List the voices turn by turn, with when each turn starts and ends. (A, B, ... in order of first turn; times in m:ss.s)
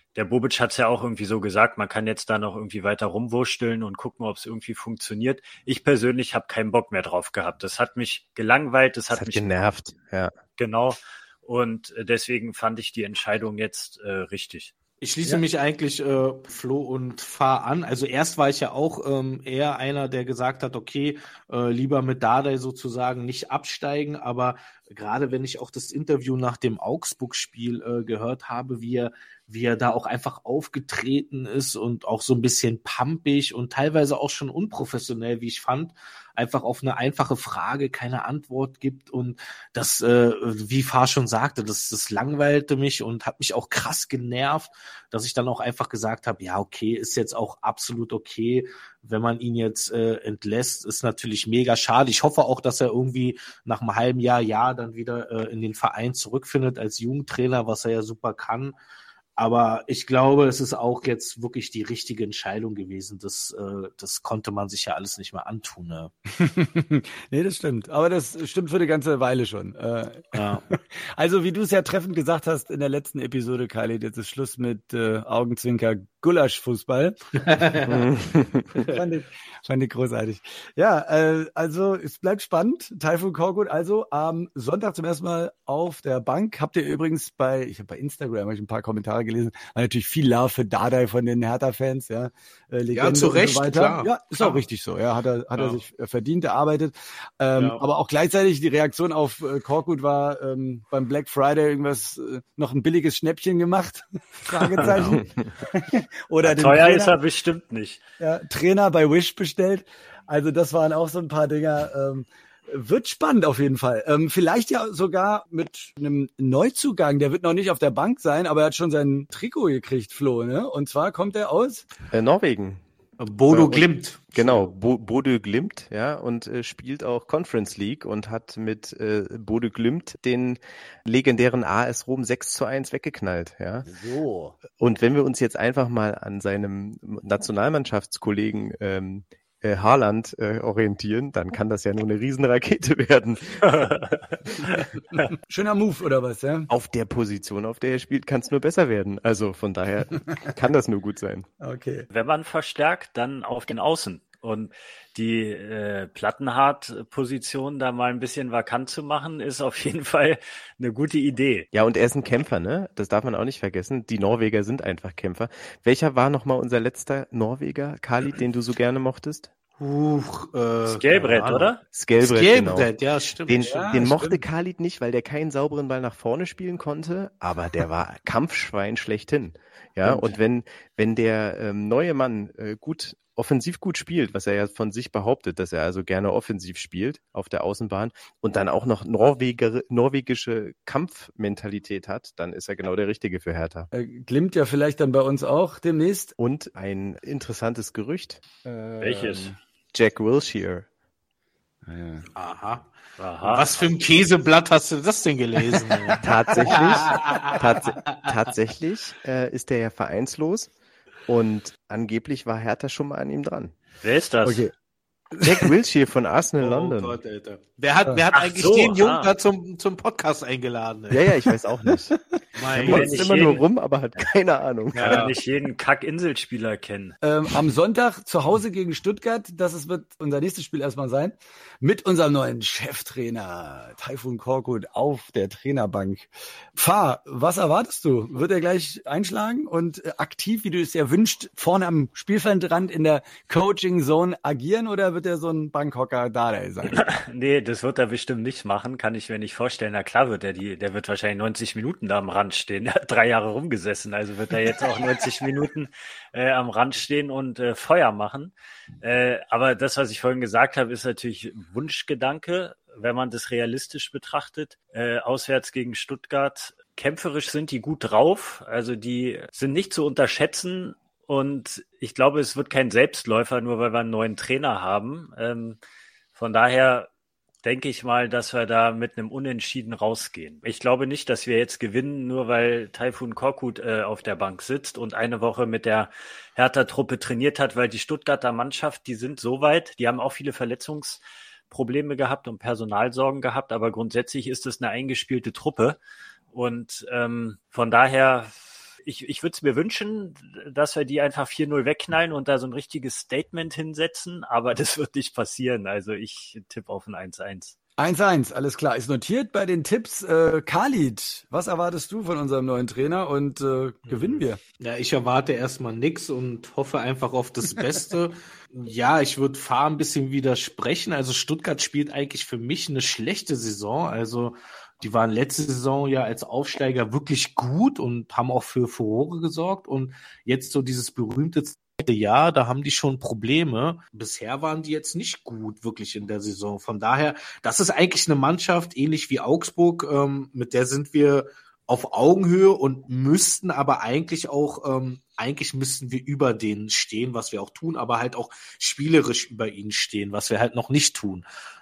0:00.1-0:09.5 A
0:09.1-0:10.3 B
0:10.6-0:14.7 A
0:15.0-0:58.8 C
0:59.4-1:06.1 C
1:06.3-1:17.4 D
1:10.3-1:10.6 C
1:17.4-1:18.1 C
1:17.8-1:18.9 B
1:18.7-1:19.0 C
1:18.9-1:47.2 D
1:32.9-1:34.6 C
1:35.5-1:35.8 C
1:37.5-1:37.8 C
1:44.9-1:45.5 B
1:46.4-1:48.0 A
1:48.2-2:01.8 D
2:02.1-2:02.8 B
2:03.2-2:04.6 C
2:03.5-2:13.9 B
2:13.8-2:14.6 D
2:14.8-2:23.9 B
2:23.7-2:24.2 A
2:24.8-2:25.2 A
2:25.5-2:26.7 D
2:26.7-2:31.5 B
2:31.6-2:32.1 D
2:32.1-2:41.7 A
2:41.7-2:49.5 B
2:49.8-2:53.7 C
2:50.8-2:51.8 A
2:51.9-2:52.9 B
2:53.5-3:13.9 B
2:53.6-2:54.4 D
3:00.0-3:00.4 C
3:13.9-3:16.3 D
3:16.4-3:18.4 B
3:18.6-3:19.6 D
3:19.0-3:19.5 A
3:19.9-3:20.8 B
3:21.8-3:22.2 D
3:22.4-3:22.9 C
3:23.2-3:23.7 A
3:23.4-3:28.2 C
3:25.7-3:26.2 D
3:26.2-3:30.7 B
3:31.3-3:33.7 B
3:34.0-3:34.6 A
3:34.4-3:34.7 D
3:35.3-3:35.6 D
3:35.4-3:37.2 B
3:36.6-3:41.2 C
3:38.3-3:39.3 A
3:41.1-3:42.2 B
3:42.5-3:43.3 C
3:42.7-3:45.3 B
3:42.8-3:43.6 A
3:44.9-3:45.3 C
3:44.9-3:47.2 A
3:47.2-4:07.0 D
4:06.9-4:35.8 A
4:36.3-4:37.1 A
4:37.6-4:56.0 A
4:56.5-5:07.8 A
5:08.0-5:14.6 D
5:14.0-5:51.4 C